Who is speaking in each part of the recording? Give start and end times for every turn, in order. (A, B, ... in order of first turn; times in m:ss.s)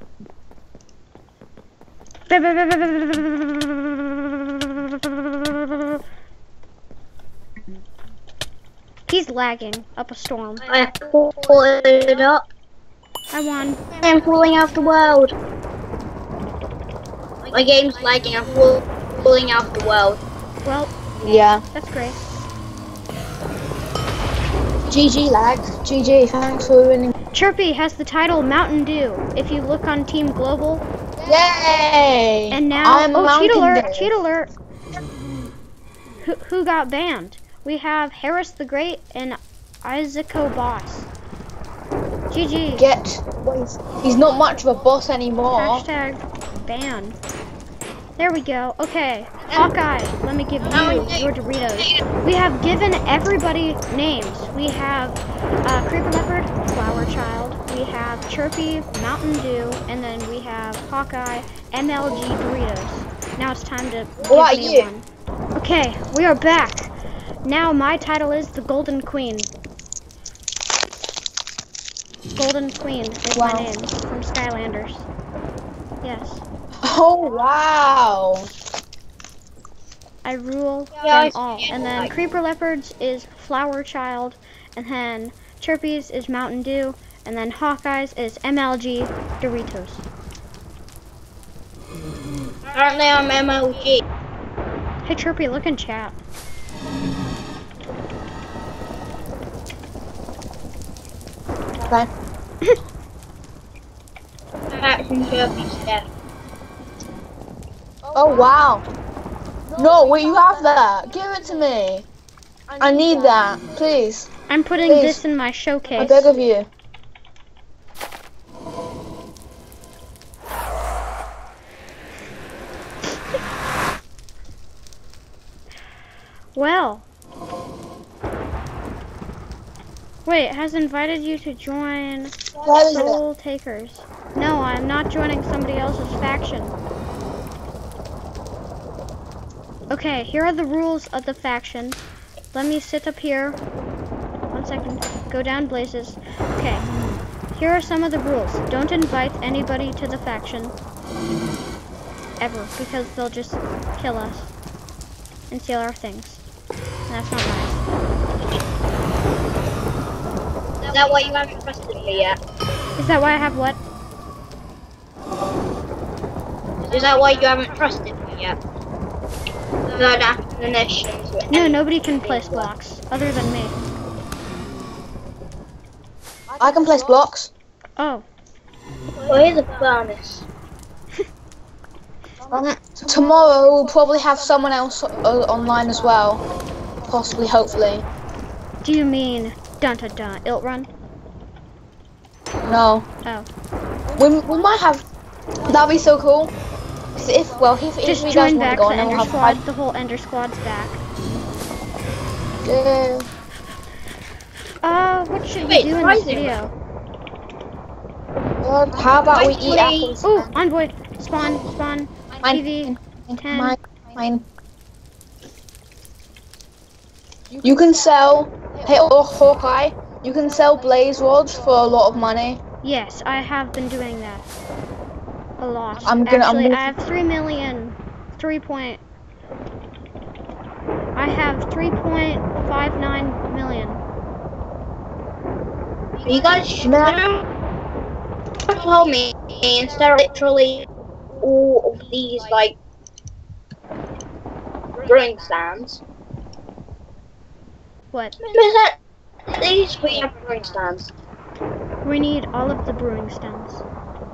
0:02.3-0:06.0 A
0:09.1-0:10.7 A
0:10.6-0:12.4 B
0:13.3-0:13.8 A
0:13.9-0:15.3 B
0:17.5-0:20.2 B
0:20.6-0:21.0 A
0:21.2-0:21.6 C
0:21.6-0:22.2 A
0:24.9-0:27.1 C
0:27.3-0:30.9 A
0:31.2-0:34.2 C
0:32.5-0:34.5 A
0:36.2-0:41.1 A
0:42.3-0:42.9 A
0:42.8-0:45.9 C
0:45.5-0:47.2 A
0:48.2-1:06.9 A
0:50.7-0:51.3 B
1:04.2-1:04.9 C
1:07.4-1:09.5 A
1:12.4-1:15.1 A
1:13.3-1:13.7 C
1:16.0-1:16.4 A
1:16.8-1:18.5 C
1:20.2-1:30.0 A
1:21.0-1:22.1 B
1:32.7-1:34.0 B
1:35.0-1:36.2 A
1:44.7-1:46.1 B
1:48.1-1:48.8 C
1:49.8-1:52.1 C
1:52.8-1:54.3 C
1:54.5-1:56.3 A
1:54.8-1:55.2 C
1:56.0-1:56.7 C
2:06.6-2:07.1 A
2:10.2-2:16.8 A
2:12.6-2:13.2 C
2:19.9-2:22.0 A
2:22.5-2:23.6 A
2:24.5-2:26.9 A
2:27.5-2:30.7 A
2:32.4-2:34.5 A
2:35.5-2:36.4 A
2:37.1-2:37.9 A
2:40.9-2:42.4 B
2:43.0-2:43.8 A
2:46.9-2:48.6 B
2:49.9-2:52.7 B
2:51.5-2:53.8 A
2:56.6-2:57.5 C
2:58.0-2:58.2 A
2:59.3-3:00.5 B
3:02.5-3:06.4 C
3:07.1-3:08.1 C
3:08.8-3:10.9 A
3:12.6-3:13.1 C
3:14.2-3:15.0 C
3:15.7-3:16.5 C
3:17.2-3:19.6 C
3:18.0-3:21.0 A
3:22.6-3:23.3 C
3:24.8-3:26.7 A
3:25.6-3:26.6 B
3:28.6-3:30.5 C
3:29.3-3:30.2 B
3:30.2-3:33.8 A
3:32.4-3:34.4 C
3:37.6-3:42.6 C
3:42.8-3:44.4 A
3:45.6-3:49.0 A
3:46.0-3:47.0 C
3:51.2-3:54.0 A
3:56.2-3:57.4 B
3:56.8-3:57.2 C
3:58.7-4:00.9 B
4:01.4-4:02.8 B
4:05.0-4:06.0 B
4:08.4-4:09.0 B
4:09.5-4:11.1 B
4:12.0-4:13.8 A